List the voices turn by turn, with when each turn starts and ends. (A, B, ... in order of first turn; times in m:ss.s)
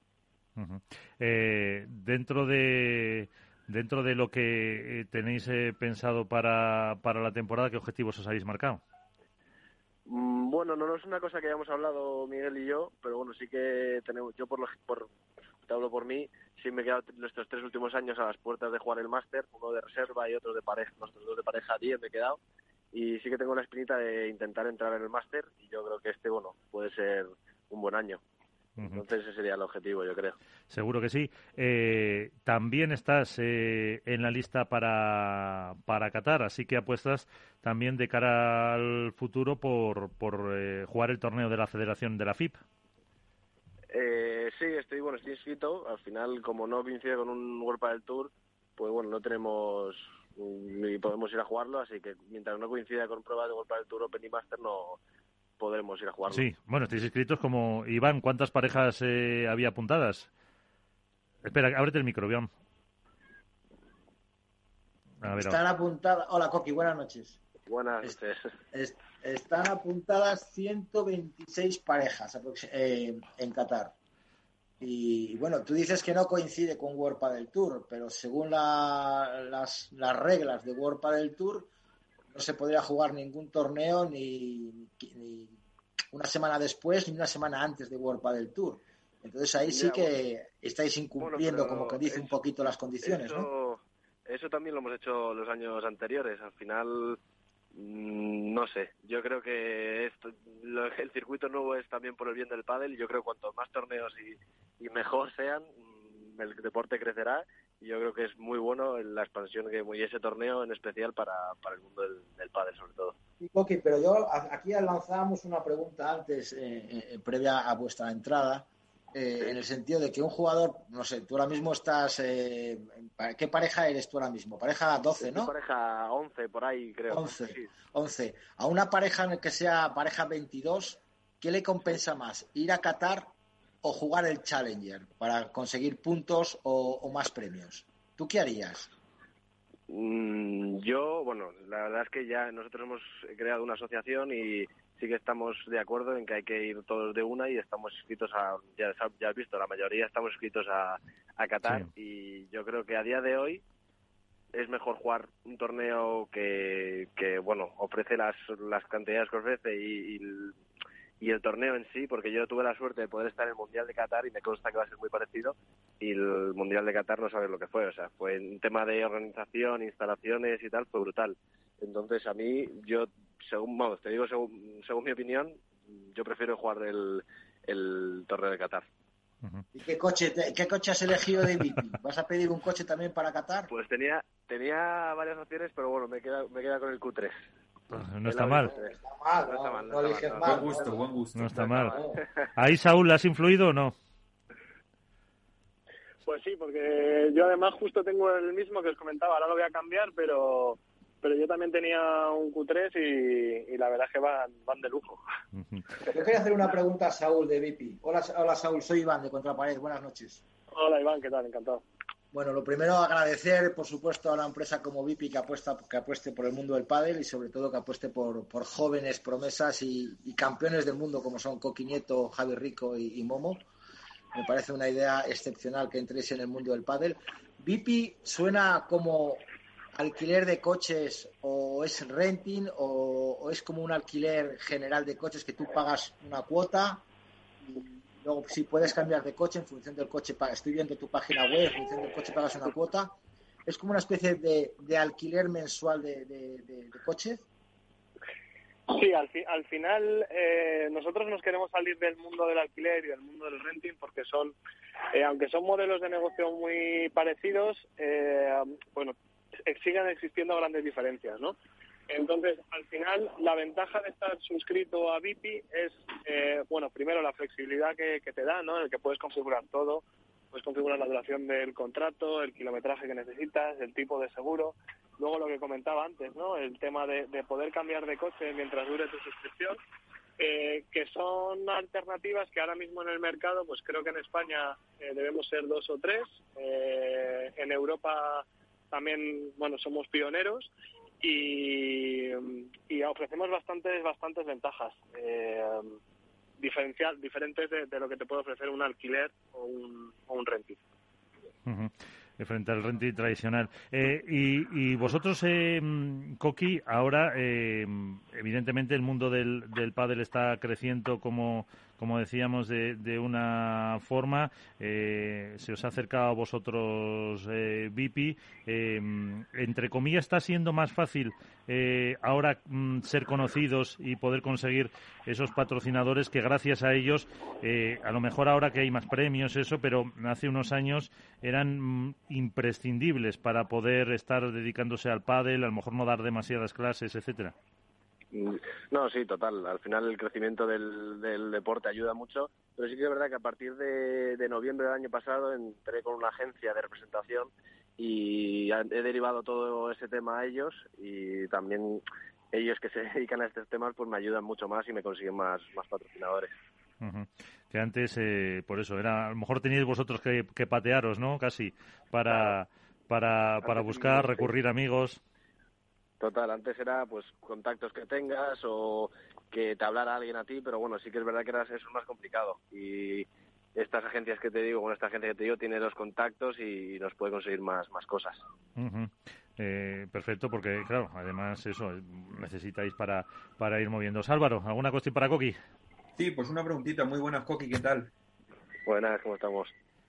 0:00.6-0:08.8 A
0:10.1-0:15.1 B
0:15.7-0:22.4 B
0:22.9-0:28.2 B
0:28.8-0:29.0 A
0:28.8-0:30.4 B
0:30.7-0:42.6 A
0:43.9-0:55.0 B
0:55.6-0:56.5 B
0:56.3-1:00.3 A
1:01.4-1:02.5 A
1:05.2-1:05.6 A
1:05.3-1:07.4 C
1:07.7-1:08.5 B
1:08.7-1:13.9 C
1:14.8-1:21.7 C
1:22.3-1:25.6 C
1:26.1-1:33.4 C
1:29.7-1:30.1 B
1:31.2-1:32.4 B
1:33.0-1:37.2 B
1:37.7-1:53.2 B
1:53.4-2:05.5 C
2:05.2-2:07.7 B
2:07.1-2:13.3 C
2:13.8-2:18.9 C
2:19.9-2:33.6 B
2:31.6-2:31.9 A
2:34.5-2:40.5 B
2:41.2-2:58.9 B
2:59.7-3:03.7 C
3:03.7-3:07.4 B
3:07.9-3:08.7 A
3:08.2-3:08.9 B
3:08.6-3:11.0 C
3:09.5-3:10.9 B
3:10.4-3:11.8 D
3:11.3-3:11.9 A
3:11.7-3:12.2 B
3:11.8-3:12.2 C
3:12.6-3:13.9 A
3:16.2-3:25.2 E
3:25.5-3:25.8 A
3:26.1-3:30.4 C
3:30.7-3:31.8 E
3:32.3-3:43.7 C
3:44.3-3:57.0 C
3:57.6-4:07.4 C
4:08.9-4:14.5 E
4:15.1-4:21.6 E
4:22.1-4:39.8 E
4:40.4-4:50.7 E
4:51.2-4:56.0 E
4:56.6-5:00.8 E
5:01.6-5:37.5 A
5:38.3-5:56.5 B
5:57.0-6:05.2 A
6:02.3-6:02.6 B
6:03.6-6:04.5 B
6:06.2-6:18.4 B
6:18.8-6:25.6 A
6:26.2-6:28.1 D
6:28.8-6:29.7 B